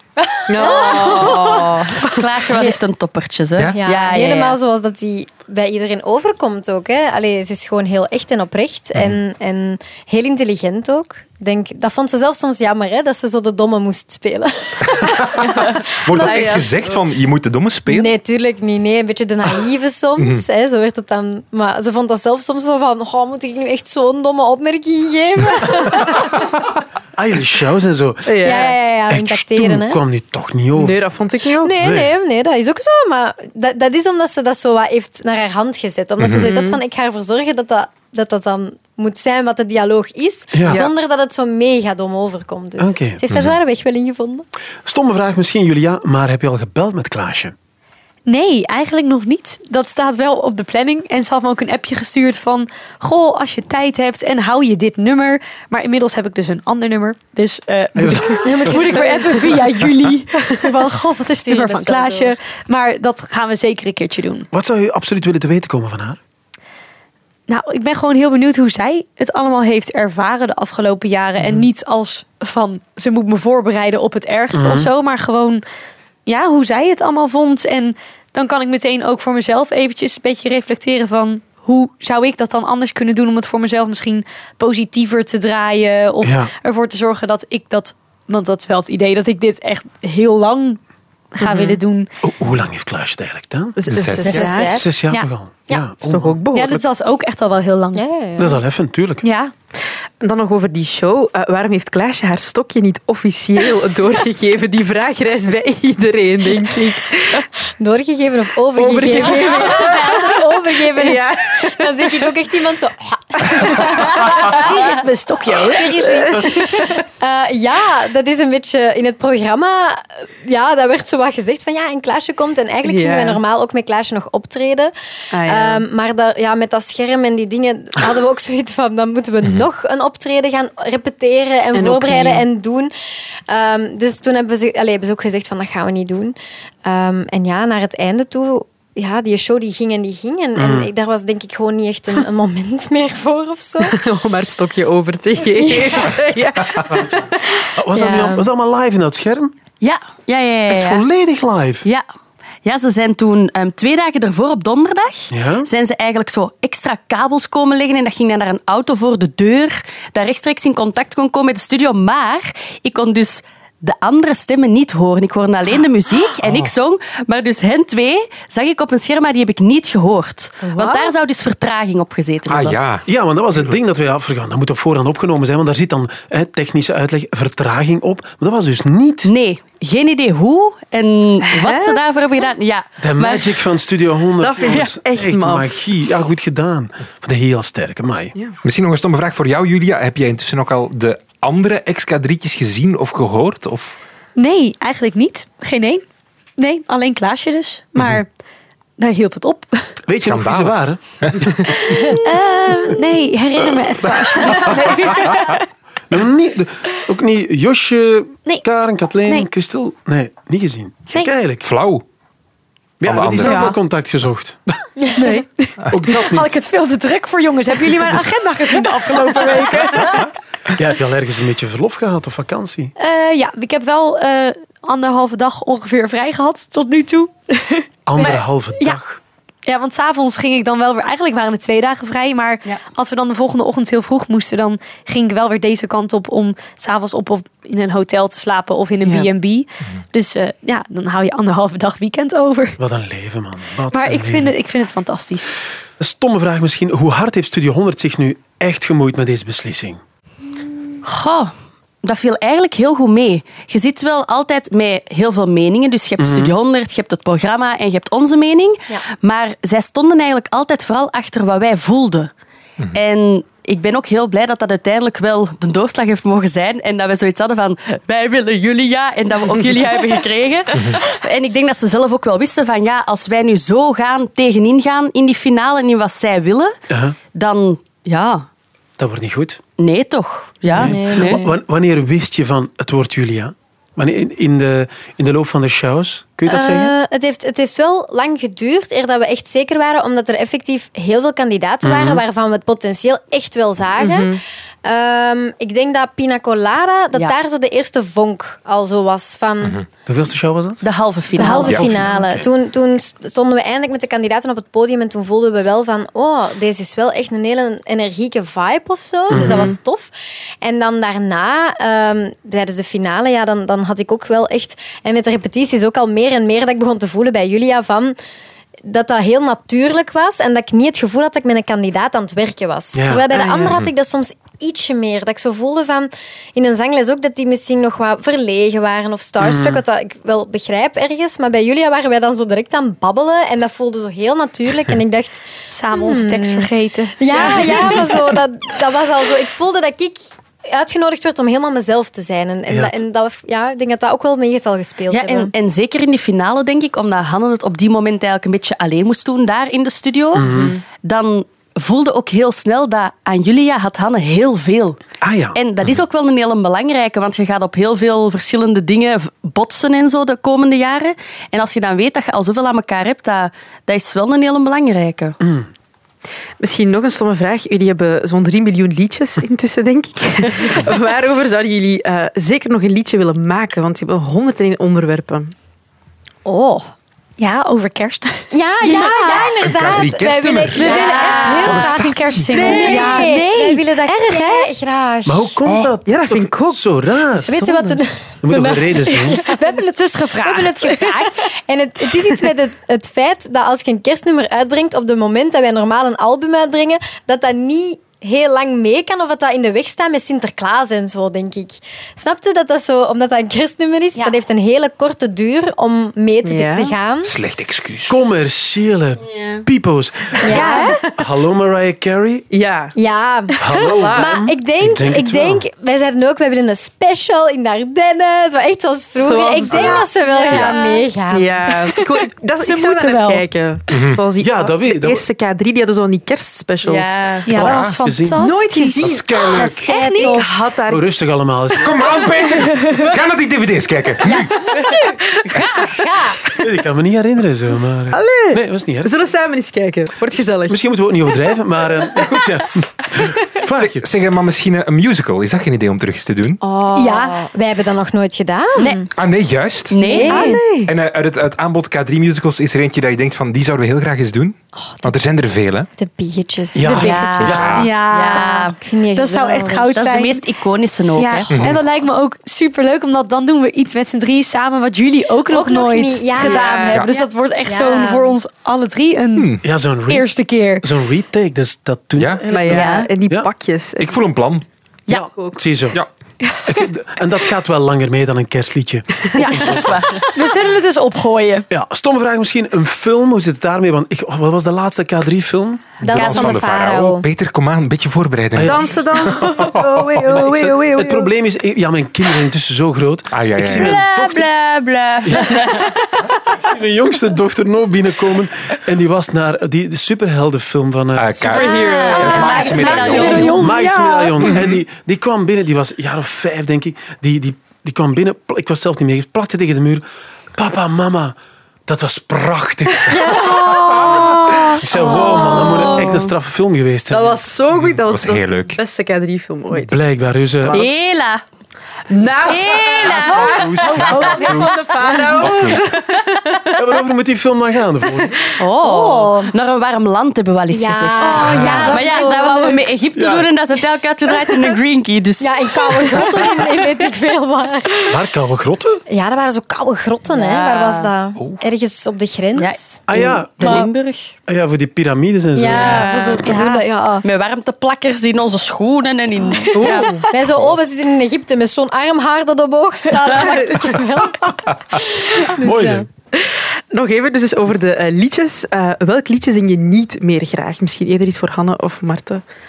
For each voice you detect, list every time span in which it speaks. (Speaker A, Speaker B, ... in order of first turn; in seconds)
Speaker A: 0.2-1.7, 3.8-15.4, 16.1-16.6, 17.9-26.3, 28.4-30.0, 31.6-44.5, 58.4-59.6, 60.6-62.3, 94.2-94.9, 97.9-98.6, 107.8-114.8, 115.7-132.9, 133.5-144.0, 145.7-146.0, 147.9-148.4, 280.7-281.5, 286.5-299.8, 301.3-318.1, 318.8-345.5, 376.4-376.9, 378.5-382.0, 382.5-385.5, 387.5-389.8, 390.4-407.3, 410.4-411.0, 413.0-421.9, 429.6-430.5, 434.2-436.4, 446.6-449.1, 450.0-450.6, 454.8-455.1, 456.0-457.6, 458.8-459.9, 465.5-468.4, 486.0-487.2, 501.5-503.7, 513.1-514.6, 515.1-515.5, 528.8-529.5, 530.7-532.9, 535.4-538.1, 539.1-543.0, 543.6-543.9, 545.5-547.2, 549.6-556.1
Speaker B: 0.5-2.2, 16.3-16.6, 28.2-28.8, 30.8-31.7, 36.4-36.8, 91.4-91.8, 93.8-94.8, 96.0-96.8, 100.2-107.5, 108.8-112.3, 113.6-114.6, 116.1-117.0, 122.8-123.4, 125.3-125.8, 131.7-132.4, 143.8-147.7, 170.6-171.1, 181.5-182.0, 184.4-185.7, 294.0-294.4, 309.4-309.8, 323.3-323.8, 366.6-375.5, 386.1-386.8, 406.4-407.0, 412.5-412.9, 413.8-414.5, 419.2-427.7, 428.4-431.1, 432.7-433.0, 438.1-440.8, 450.1-450.9, 466.4-467.0, 472.5-474.2, 475.1-475.6, 488.6-491.3, 501.5-504.1, 517.1-520.0, 520.6-520.9, 522.1-526.8, 549.7-550.3, 556.4-562.4
Speaker C: 0.6-4.6, 149.8-151.0, 152.6-172.8, 179.2-183.6, 251.0-262.3, 262.9-276.8, 277.3-278.4, 279.8-281.4, 300.8-302.1, 345.1-355.0, 355.5-365.4, 409.3-409.6, 426.8-427.5, 434.7-435.0, 448.8-449.1, 449.9-450.5, 457.0-458.8, 459.9-461.5, 472.7-473.1, 479.4-480.3, 486.1-486.6, 493.6-496.2, 502.1-503.7, 514.9-516.3, 520.7-521.4, 522.5-524.6, 528.6-536.5, 540.3-541.1, 542.5-544.3, 545.7-546.6, 547.2-550.2
Speaker D: 14.8-18.1, 20.2-20.4, 36.2-36.5, 43.3-43.6, 93.9-94.6, 129.4-129.7, 166.4-166.7, 172.5-173.0, 188.6-193.9, 200.2-202.2, 204.3-205.2, 211.6-212.0, 213.0-213.7, 270.7-271.0, 301.5-302.0, 309.4-309.6, 323.6-323.9, 379.6-383.0, 385.6-385.9, 407.2-408.1, 419.7-420.7, 423.9-424.2, 427.5-428.0, 428.9-429.8, 431.8-434.5, 443.8-446.6, 449.1-450.0, 450.8-455.9, 457.4-457.9, 461.5-461.8, 469.4-469.6, 472.2-472.5, 474.0-474.6, 486.0-490.4, 493.3-494.0, 501.1-503.6, 504.5-504.8, 513.7-514.2, 517.7-518.8, 523.1-525.8, 531.4-532.0
Speaker E: 27.1-28.3, 29.1-31.0, 31.8-32.1, 40.5-40.9, 42.8-43.2, 44.8-47.5, 58.0-58.8, 64.5-66.2, 74.5-74.9, 86.2-86.5, 92.2-96.4, 98.4-99.2, 140.6-140.9, 147.7-149.5, 150.7-151.8, 155.3-155.7, 173.1-179.3, 183.0-188.3, 200.1-201.7, 206.1-211.7, 213.0-214.8, 215.9-216.5, 220.7-222.9, 228.1-229.2, 242.8-244.5, 246.0-250.0, 256.2-256.5, 276.9-277.2, 279.0-279.6, 280.7-286.9, 291.9-292.1, 300.1-300.8, 301.7-302.5, 309.3-309.7, 322.9-323.3, 329.4-329.8, 342.7-343.0, 350.3-350.8, 355.2-355.6, 365.4-365.7, 385.2-387.8, 388.4-389.4, 408.1-412.5, 413.6-415.6, 424.4-425.2, 428.0-428.4, 430.9-432.2, 436.6-439.1, 440.7-444.1, 456.7-457.8, 469.6-473.5, 475.1-476.0, 476.6-479.1, 481.7-485.9, 488.5-489.4, 490.2-494.5, 495.2-495.9, 496.5-501.5, 503.5-513.4, 514.6-517.4, 519.7-520.8, 526.8-528.4, 533.1-533.5, 538.1-539.0, 543.1-543.9, 544.5-546.2, 555.6-556.1
Speaker F: 48.2-64.5, 67.5-75.6, 76.2-90.8, 91.3-92.1, 96.5-98.0, 99.2-99.5, 108.8-110.1, 113.7-116.4, 194.3-196.0, 196.6-198.3, 199.0-199.9, 201.9-205.6, 213.4-213.8, 215.1-220.3, 223.0-229.0, 229.7-242.8, 243.9-245.6, 335.7-338.1, 377.4-379.5, 380.7-384.7, 389.3-391.3, 410.5-411.0, 420.2-421.0, 422.6-423.4, 427.5-430.5, 446.9-447.5, 456.8-460.4, 461.1-469.5, 470.1-470.9, 479.4-481.7, 501.6-504.5, 513.3-514.7, 523.4-524.5, 531.2-532.8, 546.4-546.9